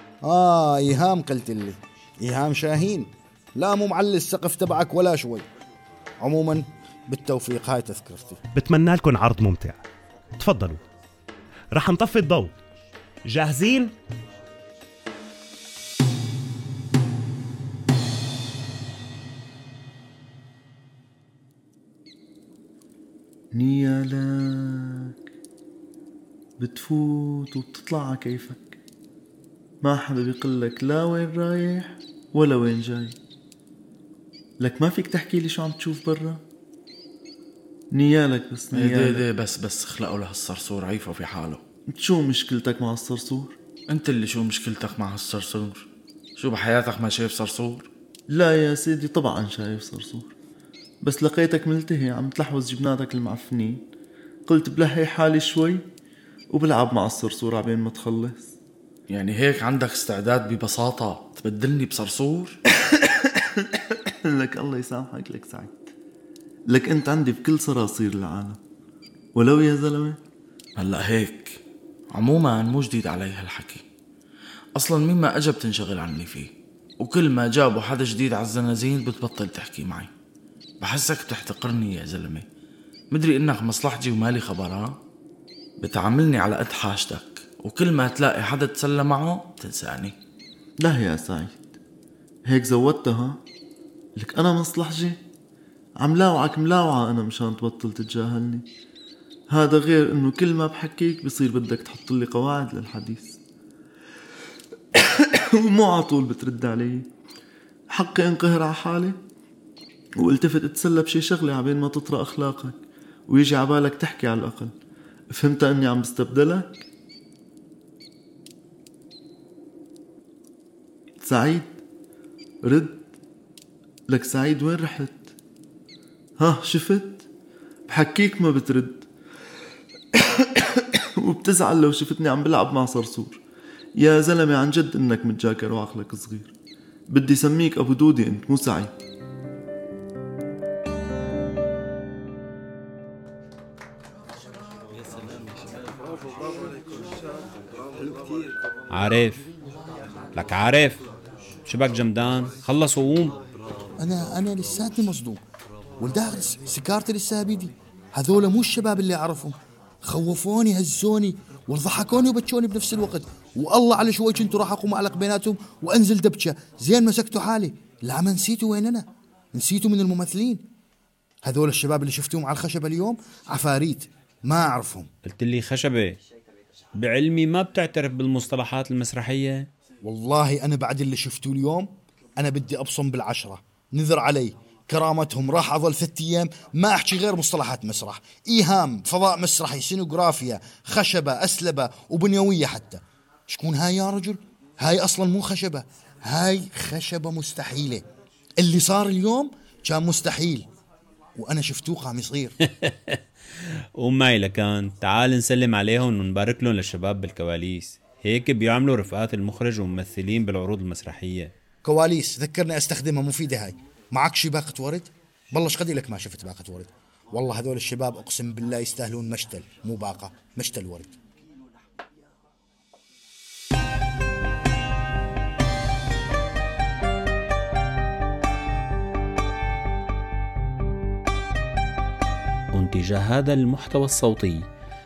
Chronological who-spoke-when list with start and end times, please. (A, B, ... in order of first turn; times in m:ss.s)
0:00.2-0:05.5 A
0:06.2-0:08.4 A
0:08.5-0:09.8 B
0:10.4-0:10.8 B
0:11.7-0:12.6 B
0:13.3-0:13.9 B
0:23.5-0:25.1 C
0:26.6-0:28.8 C
0:29.8-0:33.2 C
0:34.6-0:36.4 C
0:37.9-0:39.3 C
0:38.7-0:41.6 D
0:41.9-0:43.6 C
0:43.9-0:45.9 D
0:46.4-0:47.9 D
0:48.3-0:50.3 C
0:51.0-0:53.8 C
0:54.5-0:55.8 C
0:56.5-0:58.5 C
0:59.1-1:02.6 D
1:03.0-1:03.7 C
1:04.2-1:05.8 C
1:06.7-1:08.6 C
1:09.4-1:10.2 C
1:10.8-1:11.6 D
1:12.1-1:13.8 D
1:14.8-1:20.1 D
1:20.8-1:22.4 D
1:23.1-1:25.0 D
1:25.8-1:30.2 D
1:30.8-1:31.6 C
1:32.5-1:33.4 C
1:34.2-1:35.2 C
1:36.0-1:38.6 C
1:39.5-1:43.4 C
1:45.0-1:47.0 C
1:47.9-1:49.2 C
1:50.2-1:52.8 C
1:53.3-1:54.7 C
1:55.3-1:56.8 C
2:01.2-2:01.7 C
2:02.6-2:03.0 C
2:04.1-2:05.3 C
2:06.4-2:07.2 C
2:07.9-2:09.0 C
2:10.2-2:13.4 C
2:14.0-2:16.5 C
2:17.1-2:18.9 C
2:28.9-2:29.5 E
2:30.4-2:31.0 E
2:31.7-2:33.4 E
2:34.0-2:35.4 A
2:36.0-2:50.6 A
2:51.4-2:55.1 A
2:55.2-2:56.2 E
2:57.0-2:59.7 E
3:00.0-3:18.0 A
3:18.6-3:20.7 A
3:21.4-3:22.6 A
3:22.8-3:23.2 E
3:24.0-3:31.5 E
3:31.8-3:41.1 A
3:52.7-3:54.6 E